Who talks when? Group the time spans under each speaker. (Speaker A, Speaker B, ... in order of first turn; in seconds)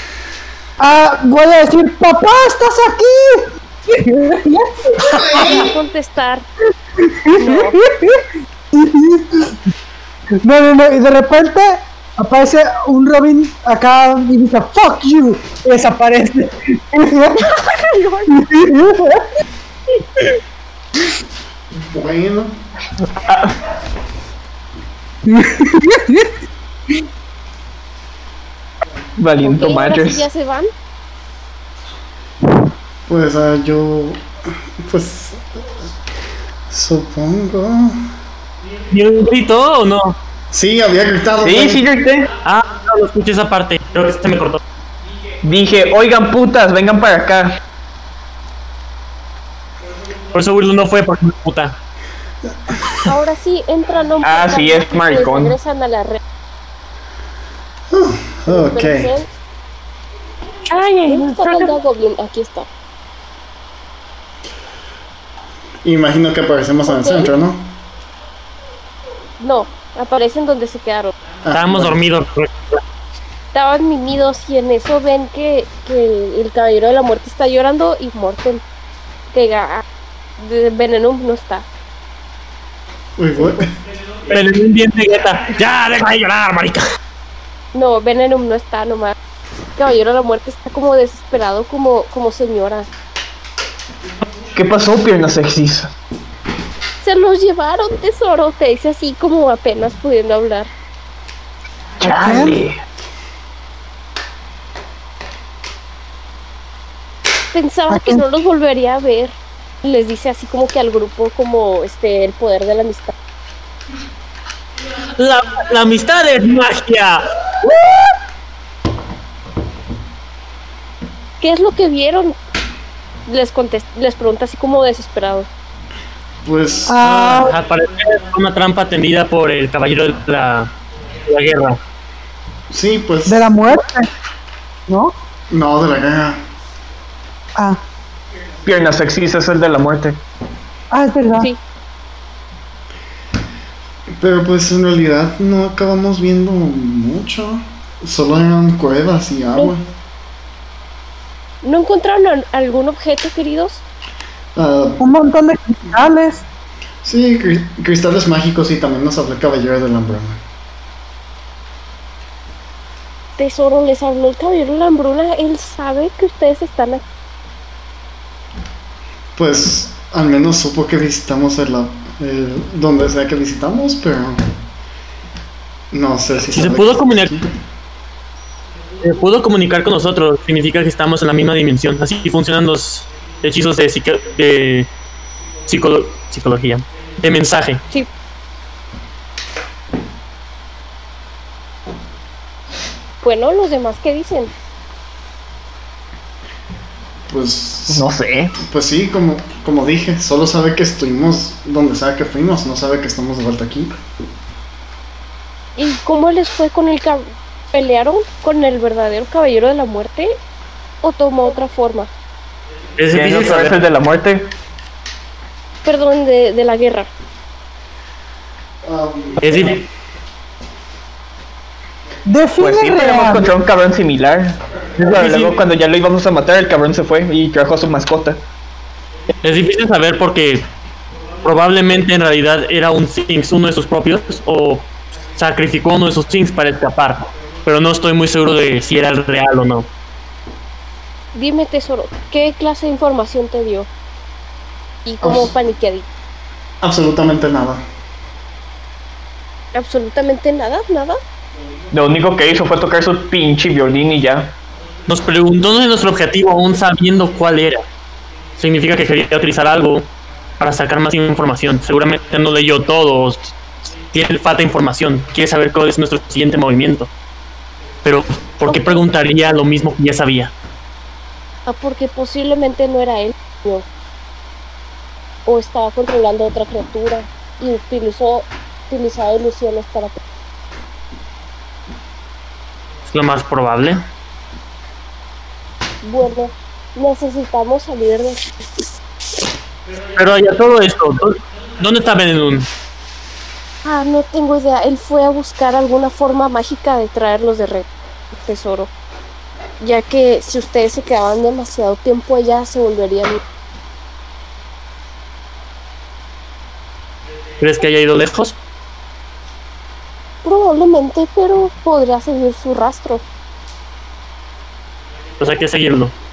Speaker A: 0.8-5.7, 7.0-9.6, 10.4-17.6, 18.3-19.2, 25.2-26.3, 102.0-102.6, 107.9-108.2, 126.9-127.5, 133.3-134.1, 134.9-135.1, 140.9-141.5, 155.0-156.4, 222.2-223.5
Speaker B: 5.0-5.8, 21.7-22.6, 33.1-35.7, 36.7-38.0, 40.5-41.8, 57.9-59.1, 65.8-67.7, 71.4-72.0, 83.2-83.7, 126.4-127.0, 132.7-133.6, 135.5-136.4, 144.1-149.8, 154.5-155.0, 157.0-160.4, 169.4-174.5, 175.9-177.5, 197.3-198.1, 198.6-204.0, 218.8-219.8, 245.2-245.5, 246.8-247.8
Speaker C: 5.3-6.5, 7.4-7.8, 17.4-18.3, 29.4-30.7, 53.0-56.2, 58.5-59.3, 60.7-62.7, 66.8-67.3, 69.4-71.1, 73.5-78.6, 79.3-79.8, 80.4-81.7, 87.7-89.1, 89.8-92.9, 97.0-100.7, 107.5-113.1, 121.4-122.4, 123.3-125.5, 151.6-153.8, 163.4-167.0, 193.2-194.5, 205.8-210.4, 211.0-212.1, 215.8-217.1, 241.3-243.9, 245.0-246.1, 249.7-251.2, 268.7-269.0, 271.7-273.9, 275.4-280.2, 286.0-288.8, 293.8-298.9, 299.8-303.4, 310.4-313.2
Speaker D: 23.1-23.5, 29.2-30.2, 41.4-42.3, 45.4-47.6, 54.2-55.5, 94.5-95.9, 102.0-102.8, 138.6-140.2, 197.9-198.6, 213.1-214.5, 222.6-228.4, 251.9-254.5
Speaker E: 38.9-40.1, 42.4-44.6, 50.3-51.8, 71.5-72.8, 84.3-86.8, 115.2-118.0, 127.0-130.7, 131.3-131.8, 176.5-177.3, 179.0-184.9, 185.7-187.8, 213.0-213.8, 219.4-219.8, 225.0-225.5, 229.4-230.7, 231.4-239.9, 255.1-257.8, 258.6-263.5, 264.1-267.1, 268.0-270.5, 283.1-284.0, 290.1-292.7, 307.6-308.6, 315.4-316.1